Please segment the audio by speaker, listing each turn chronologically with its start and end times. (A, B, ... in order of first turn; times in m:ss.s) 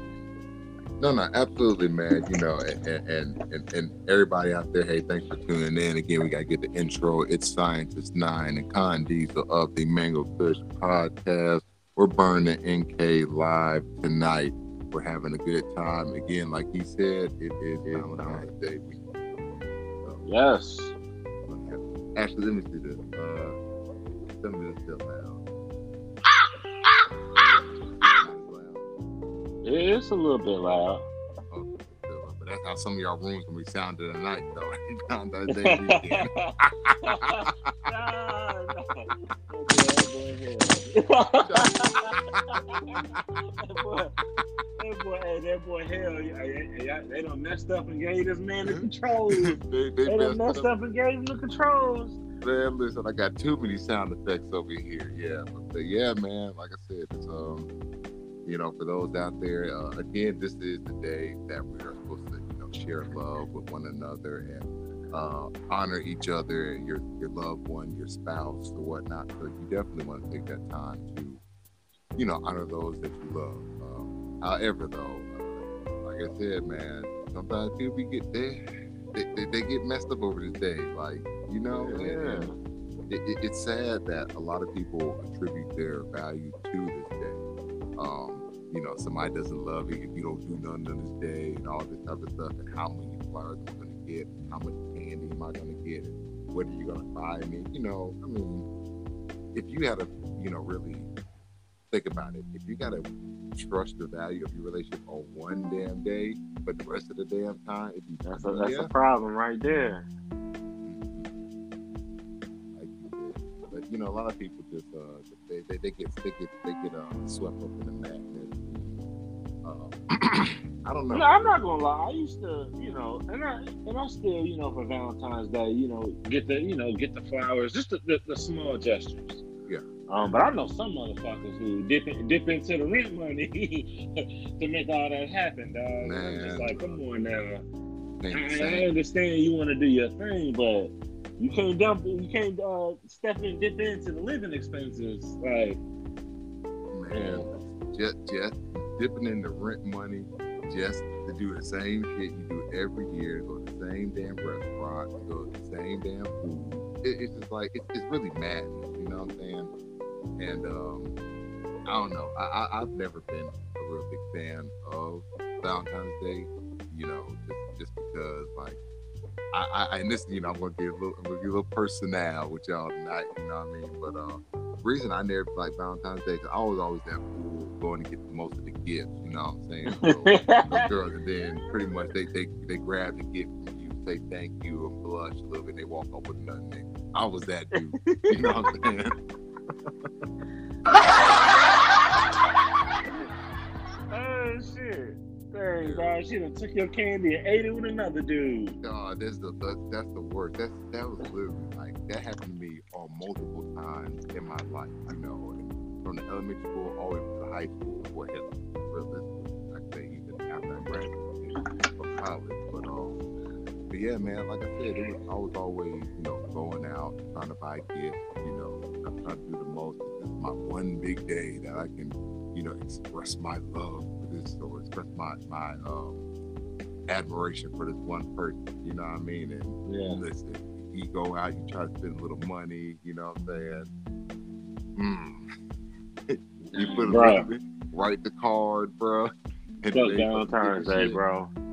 0:01.0-0:19.0 A
0:17.9-0:18.4 B
0:19.6-0:20.2 A
0:20.2-0:20.9 B
0:21.5-0:23.6 A
0:24.4-0:25.4 A
0:28.1-0:28.9 A
0:29.6-0:31.0 B
0:31.5-0:37.8 A
0:35.5-0:44.2 B
0:41.4-0:42.3 A
0:43.2-0:43.4 A
0:44.8-0:52.2 B
0:48.6-0:50.7 A
0:52.4-0:57.7 A
0:58.4-1:11.4 A
1:12.2-1:18.6 A
1:19.1-1:22.5 A
1:21.7-1:22.6 B
1:23.1-1:27.4 A
1:28.0-1:38.7 A
1:39.5-1:41.1 A
1:41.9-1:48.9 A
1:48.2-1:50.1 B
1:50.8-1:51.3 A
1:52.7-1:59.0 A
1:59.6-2:01.7 A
2:01.1-2:09.4 B
2:10.1-2:17.6 B
2:16.0-2:17.0 A
2:18.2-2:18.9 A
2:18.3-2:25.8 B
2:26.9-2:39.7 A
2:27.1-2:27.5 B
2:40.4-2:41.1 A
2:41.8-2:48.8 A
2:49.5-3:09.2 A
2:59.8-3:00.9 B
3:01.7-3:02.0 B
3:07.8-3:08.7 B
3:14.1-3:18.8 B
3:15.8-3:16.2 A
3:18.8-3:33.2 A
3:33.9-3:46.2 A
3:47.1-3:53.9 A
3:49.8-3:50.2 B
3:55.0-3:55.5 A
3:56.3-4:01.2 A
3:56.7-3:57.5 B
3:59.9-4:01.5 B